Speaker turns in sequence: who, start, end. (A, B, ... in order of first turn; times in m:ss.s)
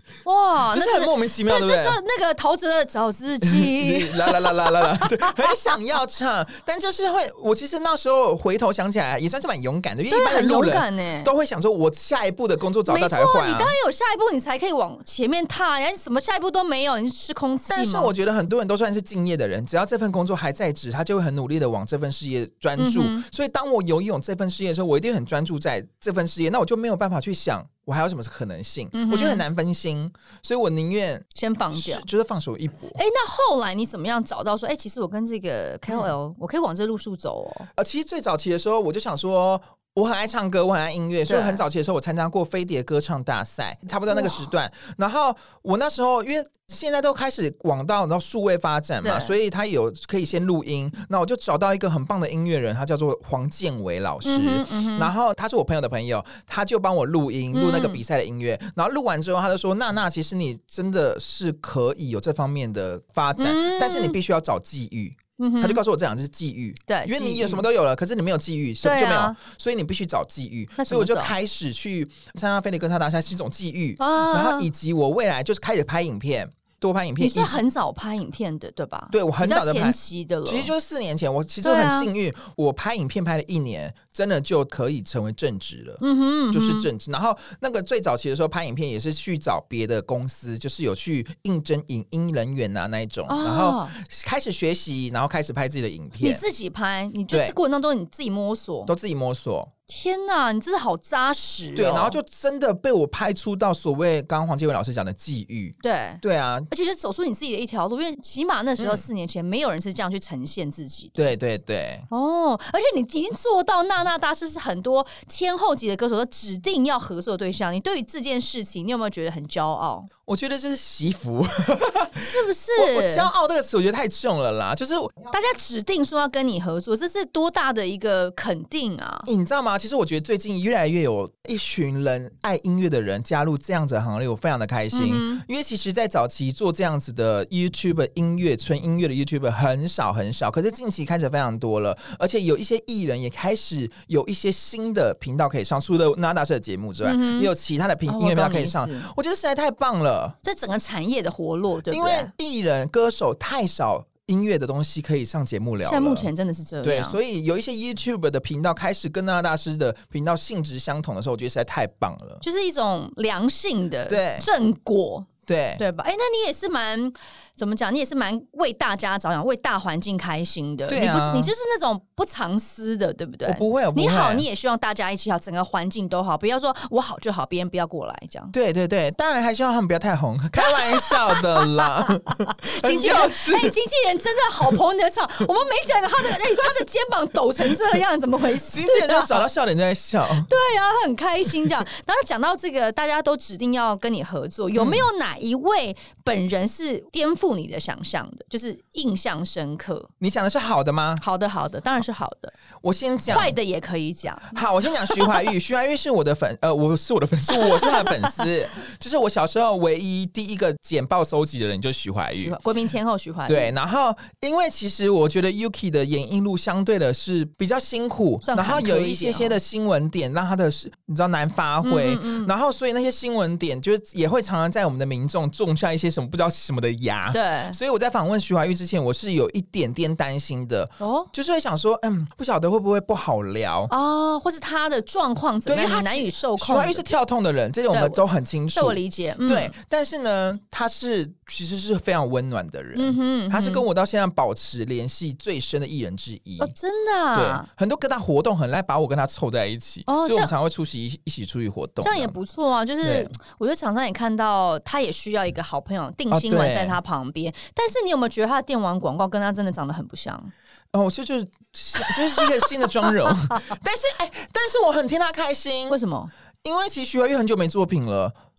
0:00.2-0:05.6 A
0:00.7-0:02.0 B
0:03.5-0:13.7 B
0:10.1-0:11.3 A
0:12.8-0:18.1 A
0:17.7-0:33.0 B
0:22.8-0:23.2 A
0:28.9-0:29.4 A
0:31.3-0:32.0 A
0:32.9-0:37.7 A
0:37.7-1:17.6 B
0:41.2-0:41.6 A
0:44.1-0:44.5 A
0:49.0-0:49.3 A
0:54.2-0:55.1 A
0:57.5-0:58.0 A
1:03.4-1:04.2 A
1:05.4-1:05.8 A
1:06.9-1:07.6 A
1:08.8-1:09.4 A
1:10.8-1:11.3 A
1:14.0-1:14.7 A
1:17.2-1:20.7 A
1:19.1-1:36.4 B
1:21.6-1:22.1 A
1:26.0-1:26.9 A
1:33.3-1:33.9 A
1:36.2-1:38.9 A
1:37.3-1:37.5 B
1:38.9-1:39.7 B
1:39.9-1:42.2 A
1:41.8-1:46.7 B
1:45.8-1:51.2 A
1:48.8-1:49.0 B
1:51.2-1:52.0 B
1:52.1-2:00.1 A
2:00.3-2:05.2 B
2:02.2-2:03.3 A
2:05.3-2:09.3 A
2:09.2-2:30.4 B
2:14.9-2:15.4 A
2:27.0-2:27.5 A
2:28.1-2:29.1 A
2:30.4-2:32.3 A
2:31.9-2:36.3 B
2:35.8-2:37.2 A
2:36.8-2:42.4 B
2:42.4-2:58.5 A
2:44.1-2:44.4 B
2:45.5-2:45.8 B
2:50.9-2:51.5 B
2:53.4-2:54.4 B
2:58.5-3:03.7 B
3:00.6-3:09.4 A
3:08.7-3:10.5 B
3:10.4-3:20.1 A
3:14.7-3:15.1 B
3:20.2-3:21.2 B
3:21.2-3:22.5 A
3:22.8-3:23.6 B
3:23.3-3:25.3 A
3:24.5-3:32.5 B
3:27.6-3:28.1 A
3:32.4-3:33.7 A
3:33.5-3:53.9 B
3:38.4-3:39.6 A
3:41.8-3:42.5 A
3:47.3-3:47.8 A
3:51.0-3:51.3 A
3:53.9-3:57.0 A
3:55.7-4:06.7 B
3:57.9-3:59.7 A
4:02.9-4:03.8 A
4:06.6-4:07.6 A
4:07.3-4:12.3 B
4:10.1-4:10.5 A
4:12.0-4:20.5 A
4:13.0-4:13.3 B
4:16.3-4:17.0 B
4:20.9-4:26.0 B
4:22.1-4:23.6 A
4:25.9-4:26.3 A
4:26.6-4:28.3 B